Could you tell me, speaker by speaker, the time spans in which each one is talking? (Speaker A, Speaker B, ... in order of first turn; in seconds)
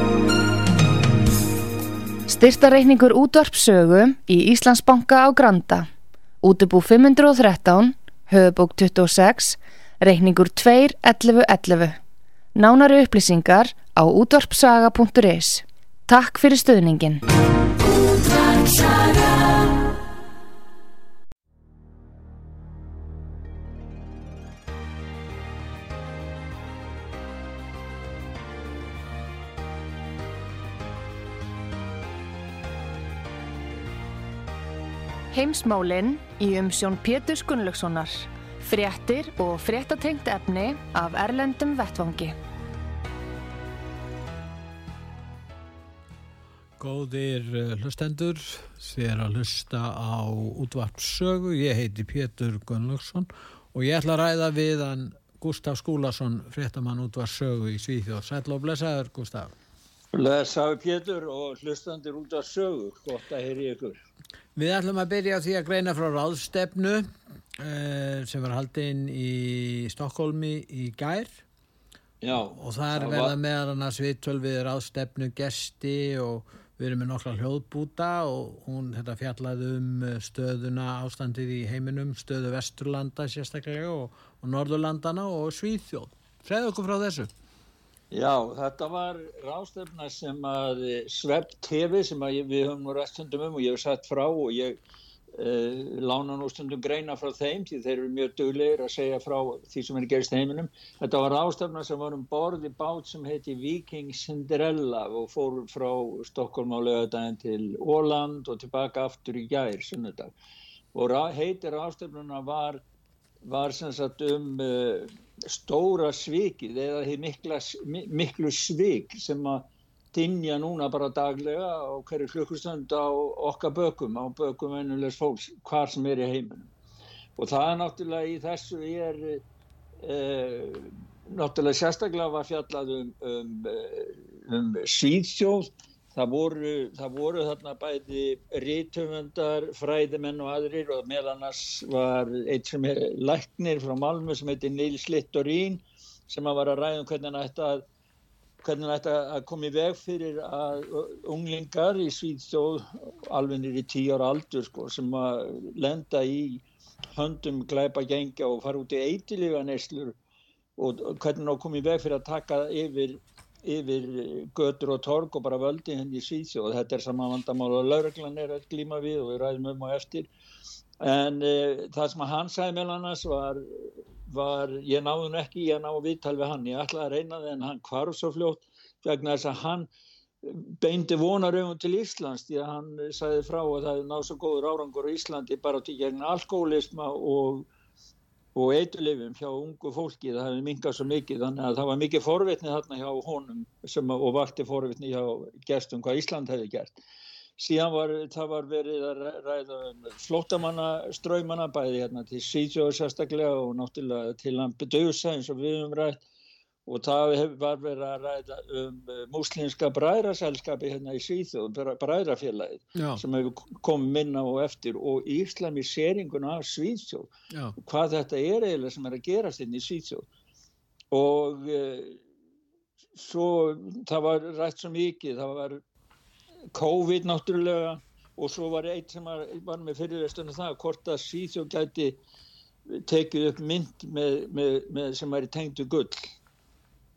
Speaker A: 2.3-5.9, 6.4-12.0, 12.6-17.2, 18.3-19.1, 35.3-42.4
Speaker B: 46.8-59.5, 64.5-67.1, 67.6-71.4, 72.5-87.3, 212.9-213.2
Speaker C: 60.1-64.0, 72.2-73.3, 88.1-94.8, 95.3-110.3, 110.9-112.8, 113.4-126.7, 127.4-129.4, 130.0-147.8, 148.6-156.6, 157.1-160.1, 160.8-170.3, 171.0-179.9, 180.4-187.7, 188.5-196.9, 197.6-206.2, 206.8-220.2, 221.1-222.2, 223.2-225.8, 226.7-232.2, 232.9-236.3